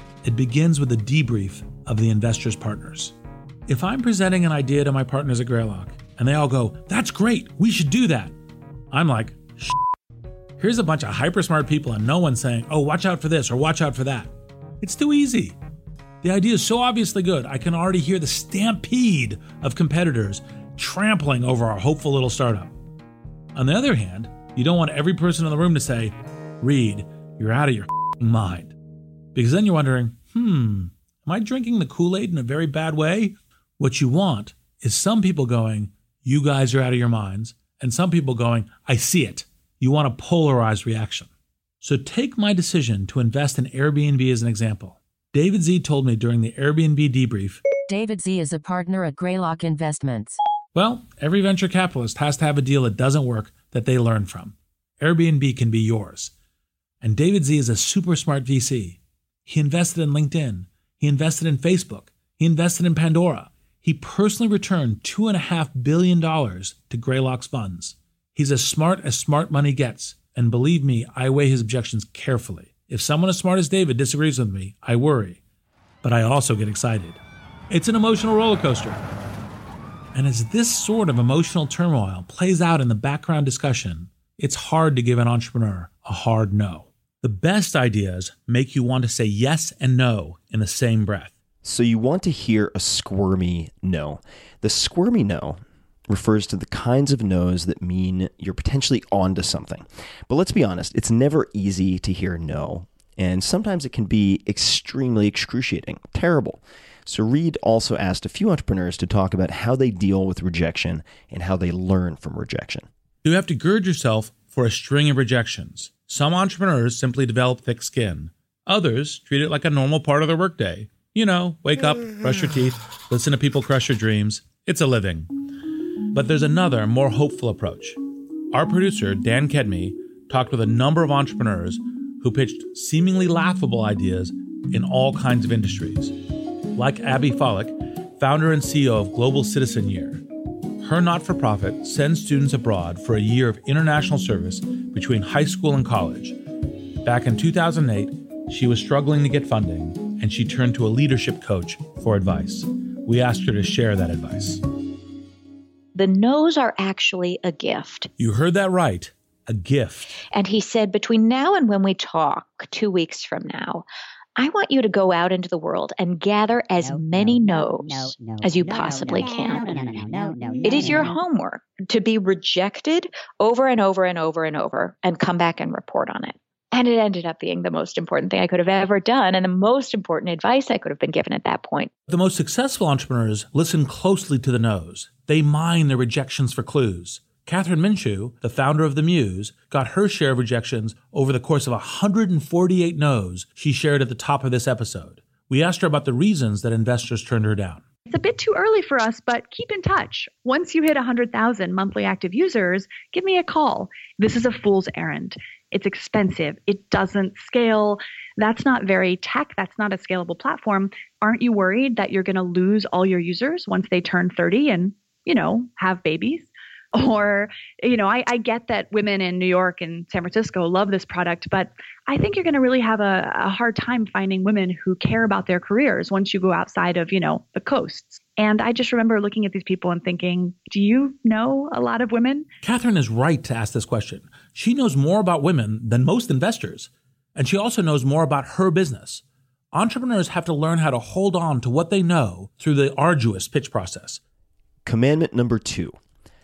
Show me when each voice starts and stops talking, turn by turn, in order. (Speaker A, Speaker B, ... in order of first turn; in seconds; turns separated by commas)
Speaker A: 0.2-3.1, Speaker A: 3.7-8.3, Speaker A: 8.9-9.8, Speaker A: 10.6-14.3, Speaker A: 14.8-15.6, Speaker A: 16.2-22.7, Speaker A: 23.6-28.7, Speaker A: 29.4-41.3, Speaker A: 41.8-47.6, Speaker B: 47.9-50.4, Speaker A: 50.8-56.3, Speaker A: 57.0-75.4, Speaker A: 76.0-79.0, Speaker A: 80.1-91.3, Speaker C: 91.6-112.9, Speaker A: 113.2-125.3, Speaker A: 126.1-128.0, Speaker A: 128.5-136.2, Speaker A: 136.8-140.2, Speaker A: 140.8-146.4, Speaker A: 147.0-154.6, Speaker D: 155.9-158.1, Speaker A: 158.2-160.2, Speaker D: 160.3-169.8, Speaker E: 166.8-171.1, Speaker D: 170.6-181.9, Speaker A: 182.1-197.8, Speaker F: 198.1-232.5, Speaker A: 232.6-244.2, Speaker C: 244.8-246.0